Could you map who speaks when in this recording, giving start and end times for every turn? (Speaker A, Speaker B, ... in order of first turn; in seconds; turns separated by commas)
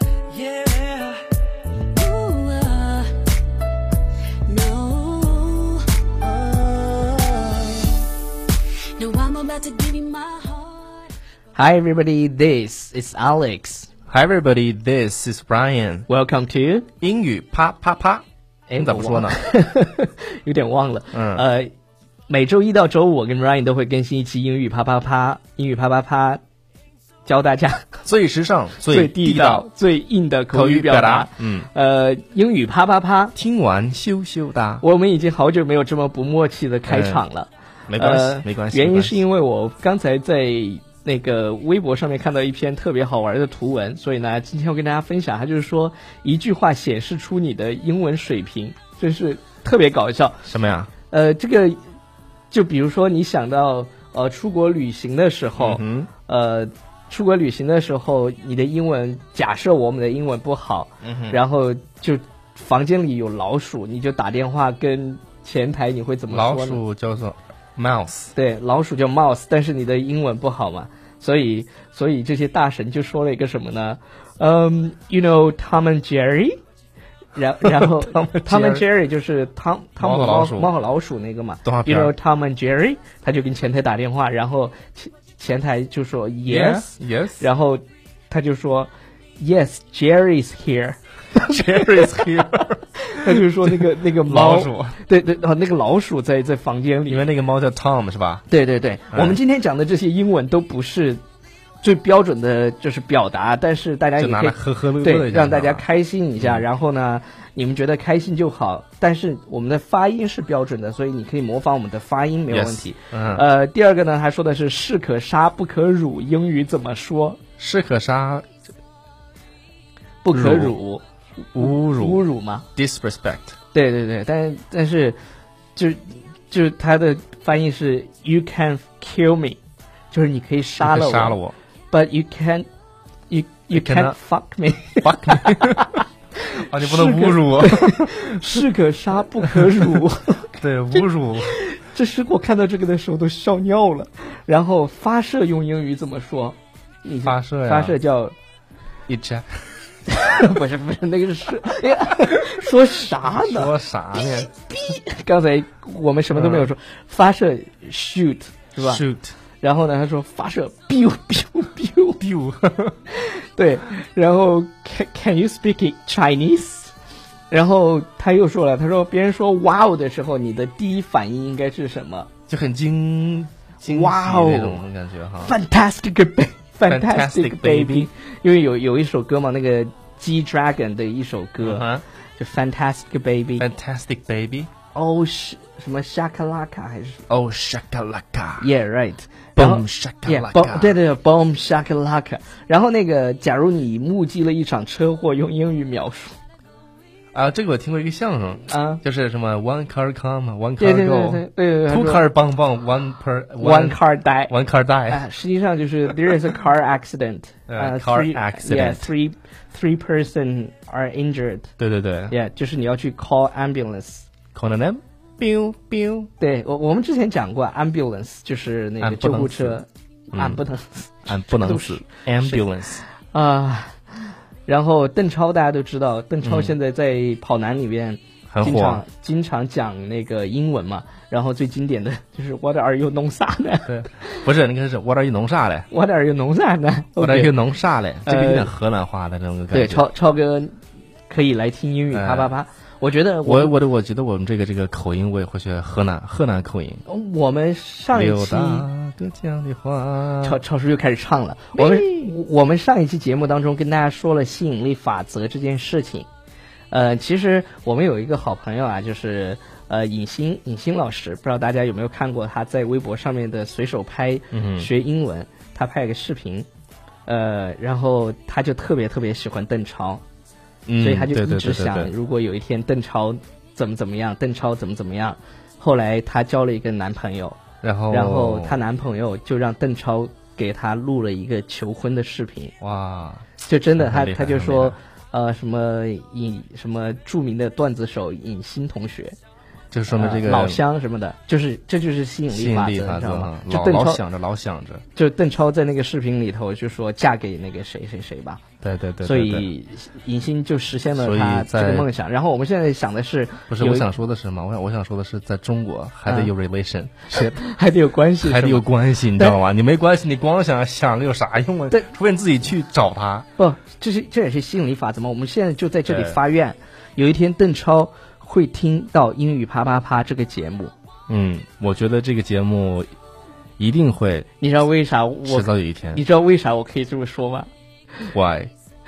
Speaker A: 0.3-1.2, Speaker A: 1.9-3.2, Speaker A: 4.5-7.8, Speaker A: 8.9-11.0, Speaker B: 11.5-13.9, Speaker C: 14.1-16.1, Speaker B: 16.1-16.9, Speaker C: 17.0-19.4, Speaker B: 18.7-21.7, Speaker C: 21.1-21.4, Speaker B: 22.3-26.4, Speaker B: 27.2-27.9, Speaker C: 28.0-29.7, Speaker B: 28.9-33.3, Speaker C: 30.5-31.7, Speaker C: 33.3-34.8, Speaker B: 34.8-50.5, Speaker C: 36.9-37.2, Speaker C: 37.9-39.2, Speaker C: 50.5-50.9, Speaker B: 51.1-51.8, Speaker B: 52.5-66.8, Speaker C: 55.6-56.1, Speaker C: 61.0-61.4, Speaker C: 66.3-68.3, Speaker B: 68.3-76.6, Speaker B: 77.3-91.0, Speaker C: 77.6-78.8, Speaker C: 80.0-80.7, Speaker C: 81.6-82.1, Speaker C: 86.5-87.5, Speaker C: 91.3-95.0, Speaker B: 91.7-92.4, Speaker B: 93.1-97.2, Speaker C: 97.1-98.5, Speaker B: 98.5-101.2, Speaker C: 99.1-99.4, Speaker B: 101.8-117.4, Speaker C: 104.2-105.8, Speaker C: 112.5-113.4, Speaker C: 117.6-118.5, Speaker B: 120.2-121.0, Speaker C: 120.3-120.8, Speaker C: 121.5-122.2, Speaker B: 121.6-122.7, Speaker C: 122.8-123.5, Speaker B: 123.7-125.2, Speaker B: 125.8-129.6, Speaker B: 130.1-131.4, Speaker C: 130.8-131.5, Speaker B: 131.9-132.7, Speaker B: 133.3-148.3, Speaker C: 133.7-134.2, Speaker C: 135.0-135.9, Speaker C: 136.5-138.6, Speaker C: 139.4-140.0, Speaker C: 140.6-141.6, Speaker C: 147.2-148.0, Speaker C: 149.1-149.7, Speaker B: 150.1-159.0, Speaker C: 153.2-154.5, Speaker C: 156.3-156.7, Speaker C: 158.8-159.3, Speaker B: 159.6-162.2, Speaker C: 162.2-163.0, Speaker B: 163.1-166.9, Speaker B: 167.5-172.3, Speaker C: 172.5-175.6, Speaker B: 173.8-174.8, Speaker B: 175.4-183.7, Speaker C: 176.8-178.1, Speaker C: 181.6-182.0, Speaker C: 183.6-184.7, Speaker B: 184.9-187.2, Speaker C: 187.3-188.7, Speaker B: 188.6-196.3, Speaker C: 189.6-191.0, Speaker C: 197.3-205.2, Speaker B: 198.7-199.0, Speaker B: 200.8-202.2, Speaker B: 203.6-204.5, Speaker B: 205.1-211.7, Speaker C: 207.7-209.1, Speaker C: 211.8-212.3, Speaker B: 212.3-214.3, Speaker C: 214.5-216.3, Speaker B: 216.4-222.6, Speaker C: 219.0-219.8, Speaker C: 220.3-220.6, Speaker C: 221.2-223.0, Speaker B: 223.3-224.0, Speaker B: 224.7-234.5, Speaker C: 226.4-226.7, Speaker C: 228.5-229.0, Speaker C: 233.8-235.9, Speaker B: 235.9-237.6, Speaker C: 237.2-240.1, Speaker B: 238.2-238.7, Speaker B: 239.7-240.7, Speaker B: 241.3-243.7, Speaker C: 242.1-242.5, Speaker C: 243.4-247.0, Speaker B: 247.1-248.8, Speaker C: 248.1-250.6, Speaker B: 250.4-256.3, Speaker C: 251.7-252.3, Speaker B: 256.9-266.7, Speaker C: 264.5-264.9, Speaker B: 267.2-270.2, Speaker C: 270.9-272.1, Speaker B: 271.0-277.6, Speaker C: 277.8-278.8, Speaker B: 278.1-282.7, Speaker C: 282.8-285.0, Speaker B: 283.6-289.4, Speaker C: 289.9-290.8, Speaker B: 290.1-294.2, Speaker C: 292.5-295.0, Speaker B: 295.1-298.6, Speaker C: 298.8-299.7, Speaker B: 299.2-304.1, Speaker C: 301.1-302.1, Speaker C: 303.7-307.6, Speaker B: 306.2-306.5, Speaker B: 307.3-309.6, Speaker C: 308.4-313.5, Speaker B: 313.6-320.9, Speaker C: 316.1-316.4, Speaker C: 321.3-323.1, Speaker C: 323.8-324.5, Speaker B: 324.6-327.7, Speaker C: 325.4-326.2, Speaker C: 328.3-328.7